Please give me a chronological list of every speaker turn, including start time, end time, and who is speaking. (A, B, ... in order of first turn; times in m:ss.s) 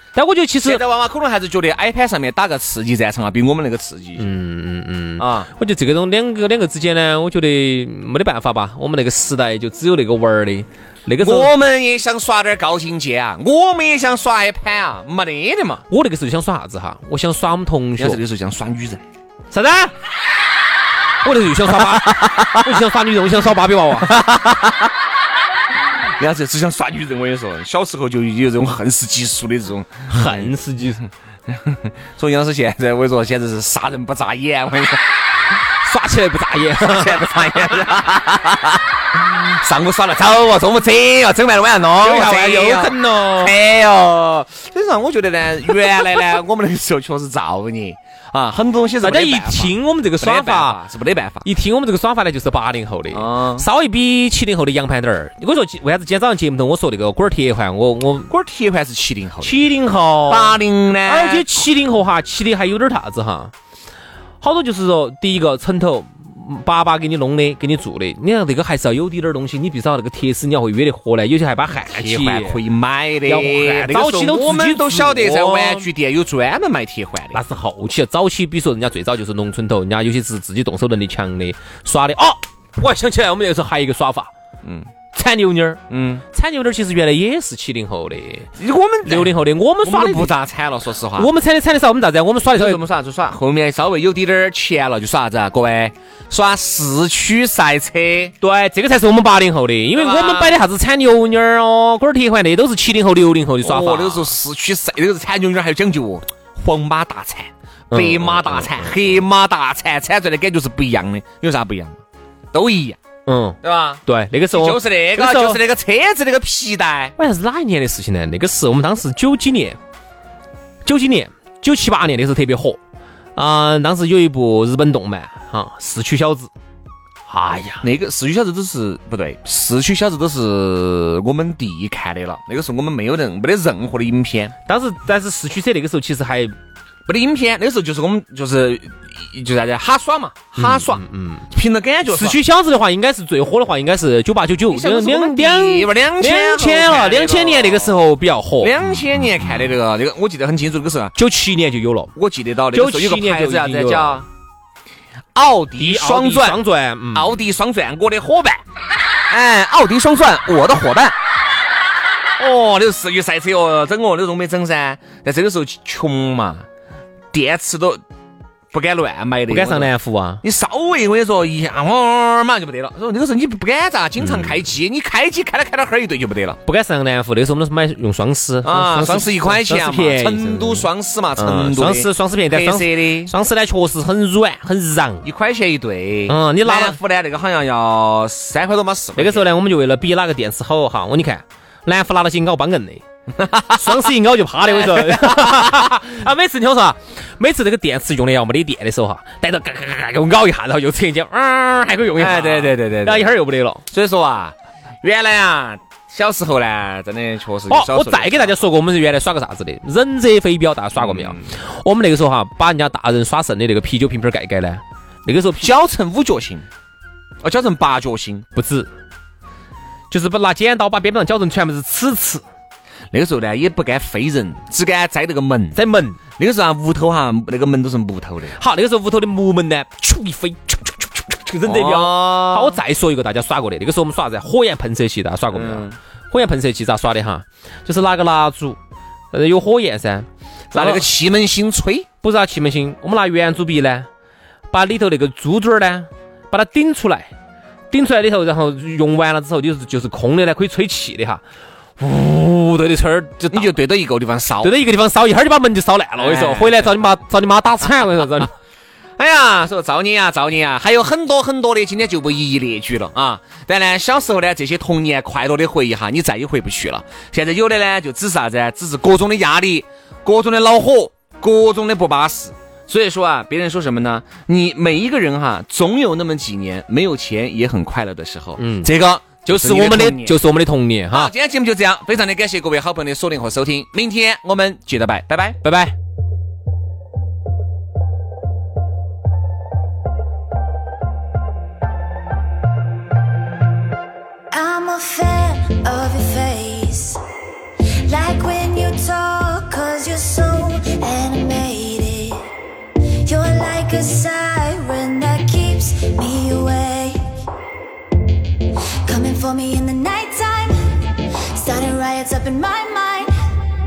0:00.1-0:00.8 A
0:00.6-0:04.2 B
0:04.2-0:11.5 A
0:05.2-0:05.5 B
0:11.2-0:15.8 B
0:15.9-0:18.2 A
0:18.0-0:19.0 B
0:19.5-0:19.9 A
0:21.2-0:24.2 A
0:21.8-0:22.7 B
0:24.0-0:24.9 B
0:26.2-0:30.5 B
0:30.1-0:31.0 A
0:31.5-0:35.0 B
0:35.8-0:37.4 A
0:36.8-0:51.4 B
0:42.0-0:43.5 A
0:49.0-0:50.8 A
0:51.4-0:58.3 A
0:53.1-0:53.6 B
0:58.3-0:59.7 B
0:59.4-1:03.5 A
1:00.3-1:01.5 B
1:04.4-1:12.6 A
1:11.9-1:17.4 B
1:13.2-1:15.9 A
1:17.3-1:24.3 A
1:24.6-1:24.9 B
1:25.1-1:25.8 A
1:25.9-1:26.2 B
1:26.3-1:28.5 A
1:28.6-1:31.3 B
1:29.0-1:30.3 A
1:31.2-1:32.8 A
1:32.5-1:38.3 B
1:38.4-1:44.3 A
1:39.9-1:40.6 B
1:43.6-1:52.0 B
1:47.9-1:49.0 A
1:52.5-1:53.0 B
1:53.3-1:55.6 A
1:53.6-1:57.1 B
1:57.2-1:59.8 A
2:00.8-2:02.8 A
2:03.4-2:06.5 A
2:07.3-2:07.8 A
2:07.8-2:14.5 B
2:14.7-2:16.5 A
2:17.0-2:22.4 B
2:20.6-2:21.5 A
2:22.1-2:28.7 A
2:24.7-2:28.0 B
2:28.6-2:31.1 B
2:31.1-2:32.1 A
2:32.2-2:34.2 B
2:32.7-2:34.2 A
2:35.3-2:36.6 B
2:35.8-2:37.4 A
2:37.1-2:38.6 B
2:39.3-2:41.1 B
2:42.4-2:46.6 B
2:47.3-2:48.0 B
2:48.7-2:56.6 B
2:49.5-2:50.4 A
2:54.2-2:54.6 A
2:56.6-3:05.2 A
2:58.6-3:03.3 B
3:05.2-3:09.5 B
3:06.3-3:07.0 A
3:09.2-3:13.0 A
3:13.4-3:14.0 B
3:13.7-3:23.8 A
3:14.6-3:15.9 B
3:22.2-3:23.3 B
3:23.9-3:28.6 B
3:27.7-3:35.6 A
3:31.0-3:31.5 B
3:35.6-3:36.6 B
3:37.4-3:38.4 B
3:38.5-3:38.9 A
3:40.1-3:42.4 A
3:43.1-3:45.8 B
3:45.7-3:46.2 A
3:46.3-3:48.6 B
3:48.6-3:58.8 A
3:51.6-3:52.8 B
3:55.5-3:56.0 B
3:59.3-4:01.1 A
4:00.7-4:02.1 B
4:02.2-4:04.1 A
4:04.7-4:07.3 A
4:07.9-4:11.4 A
4:12.0-4:13.8 A
4:13.5-4:14.7 B
4:14.6-4:18.5 A
4:16.2-4:16.9 B
4:19.2-4:40.4 B
4:38.6-4:38.9 A
4:39.4-4:41.3 A
4:41.1-4:45.6 B
4:45.6-4:45.9 A
4:54.5-4:57.2 C
4:58.0-5:02.5 C
5:03.2-5:07.2 C
5:09.0-5:11.0 C
5:11.5-5:13.3 C